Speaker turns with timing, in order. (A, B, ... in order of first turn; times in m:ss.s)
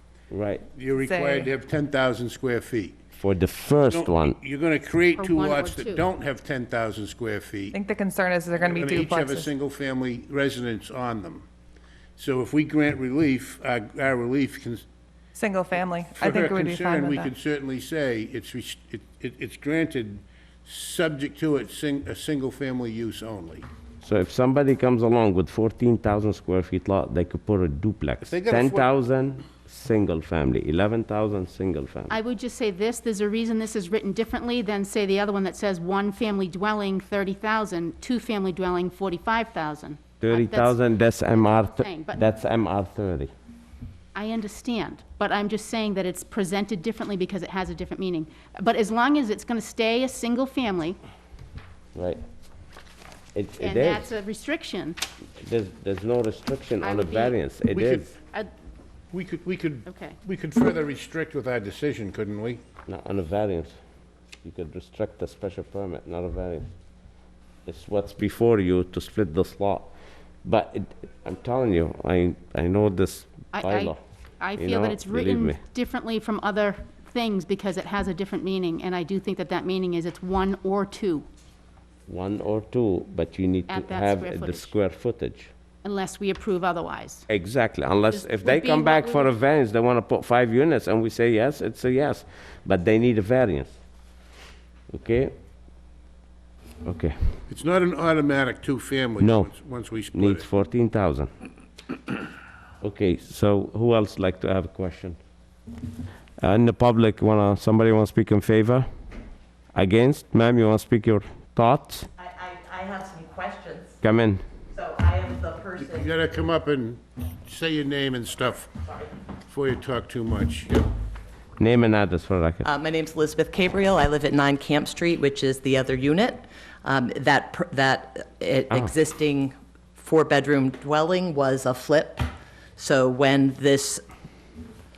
0:00.3-0:00.6 A
0:00.7-0:03.0 B
0:00.9-0:01.5 C
0:03.2-0:04.4 A
0:03.9-0:07.8 B
0:05.2-0:06.0 D
0:07.7-0:09.5 C
0:08.6-0:11.4 B
0:12.2-0:14.8 B
0:15.3-0:17.3 C
0:16.1-0:23.6 B
0:24.0-0:32.1 A
0:28.2-0:28.9 B
0:32.1-0:42.2 D
0:40.2-0:43.3 A
0:44.1-0:51.0 D
0:51.9-0:52.2 A
0:53.3-0:54.1 A
0:53.6-0:55.0 D
0:55.4-0:58.1 A
0:56.8-0:57.4 D
0:57.7-0:58.1 B
0:59.1-1:02.6 B
0:59.8-1:00.2 D
1:02.8-1:03.7 A
1:04.4-1:06.7 A
1:07.6-1:09.9 A
1:10.4-1:14.0 A
1:13.5-1:21.2 D
1:14.6-1:15.6 A
1:22.1-1:25.5 A
1:23.7-1:24.7 D
1:25.8-1:27.2 D
1:27.3-1:33.8 A
1:28.1-1:29.3 D
1:34.9-1:35.3 A
1:36.8-1:37.4 A
1:37.5-1:40.4 B
1:39.2-1:39.5 A
1:40.1-1:41.3 A
1:42.8-1:45.2 A
1:46.4-1:48.9 A
1:49.7-1:52.1 A
1:52.2-1:54.0 E
1:54.0-1:54.4 A
1:54.7-1:56.0 E
1:55.8-1:58.7 B
1:59.5-2:00.9 B
2:01.6-2:02.6 A
2:02.6-2:14.0 E